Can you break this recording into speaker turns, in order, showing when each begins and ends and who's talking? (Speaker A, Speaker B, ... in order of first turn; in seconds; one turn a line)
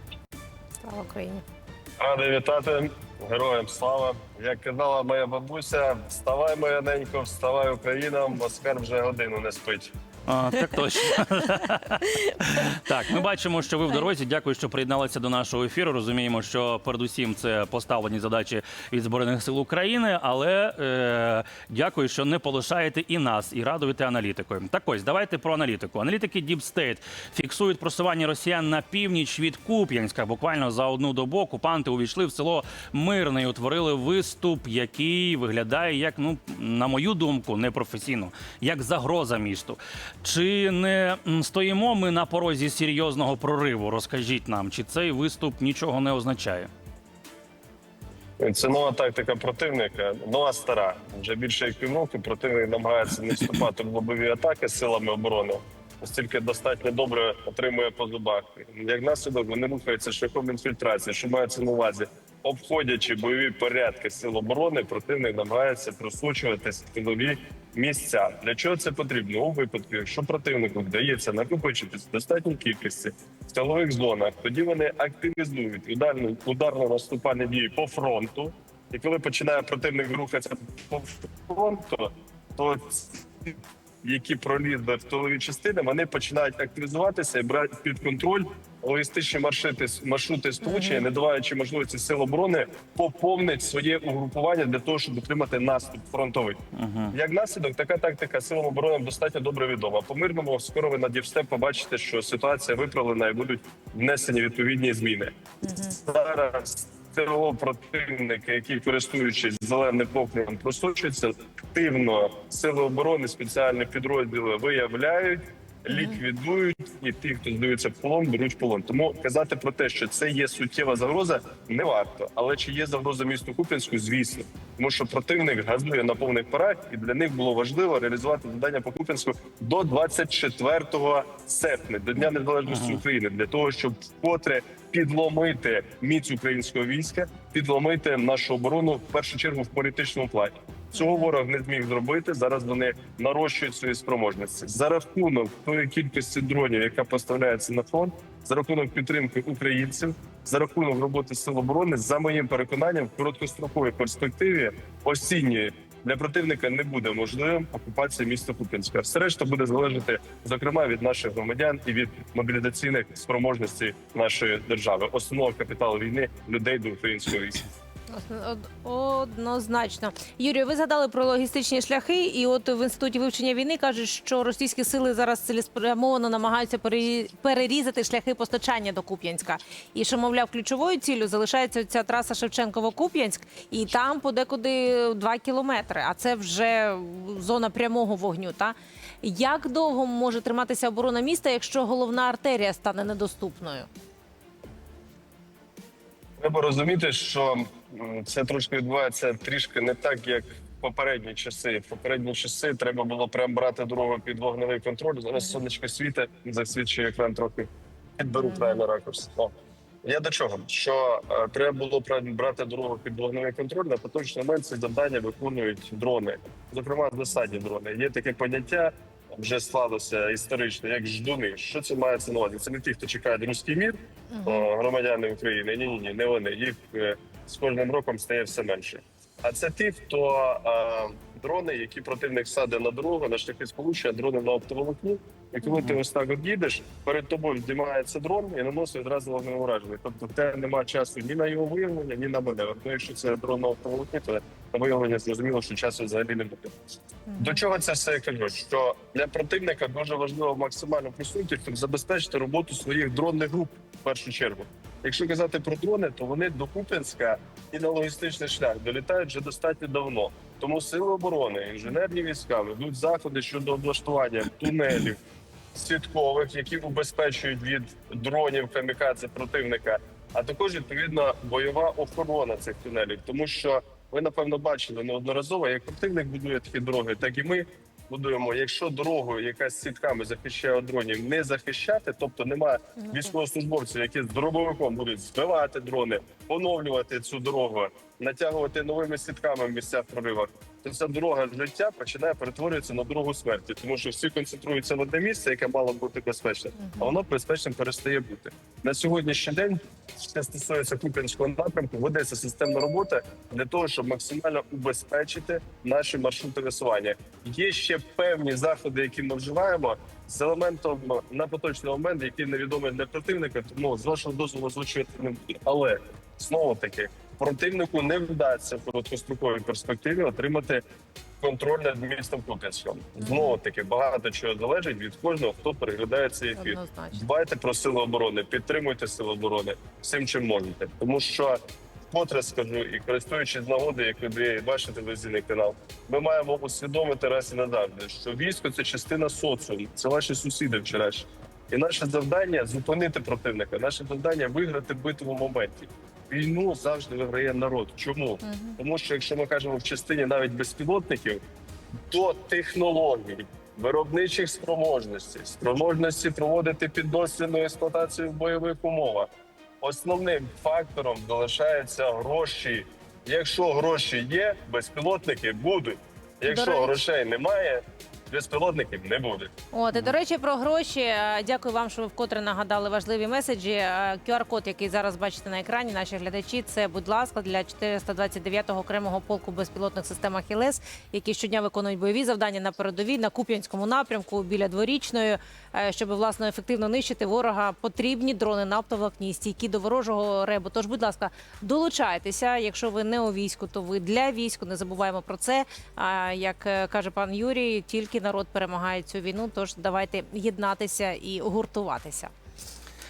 Speaker A: 0.8-1.4
Speaker B: 2.0-9.9
Speaker C: 10.3-46.7
Speaker B: 48.4-96.6
Speaker A: 90.6-91.1
Speaker C: 96.7-97.2
Speaker B: 97.1-105.3
Speaker A: 105.6-106.0
Speaker B: 106.0-167.6
Speaker A: 115.9-116.2
Speaker C: 132.7-133.0
Speaker A: 140.9-141.3
Speaker A: 168.1-193.9
Speaker B: 196.4-209.5
Speaker A: 208.4-208.8
Speaker B: 210.0-246.7
Speaker A: 224.3-224.7
Speaker A: 247.3-247.6
Speaker B: 247.4-265.2
Speaker B: 265.7-320.8
Speaker A: 283.0-283.3
Speaker A: 296.8-297.1
Speaker B: 321.4-331.6
Speaker A: 323.2-323.6
Speaker A: 326.6-327.2
Speaker B: 332.1-351.4
Speaker A: 348.4-348.8
Speaker B: 352.1-359.3
Speaker B: 359.8-369.5
Speaker A: 366.4-366.9
Speaker A: 369.7-402.3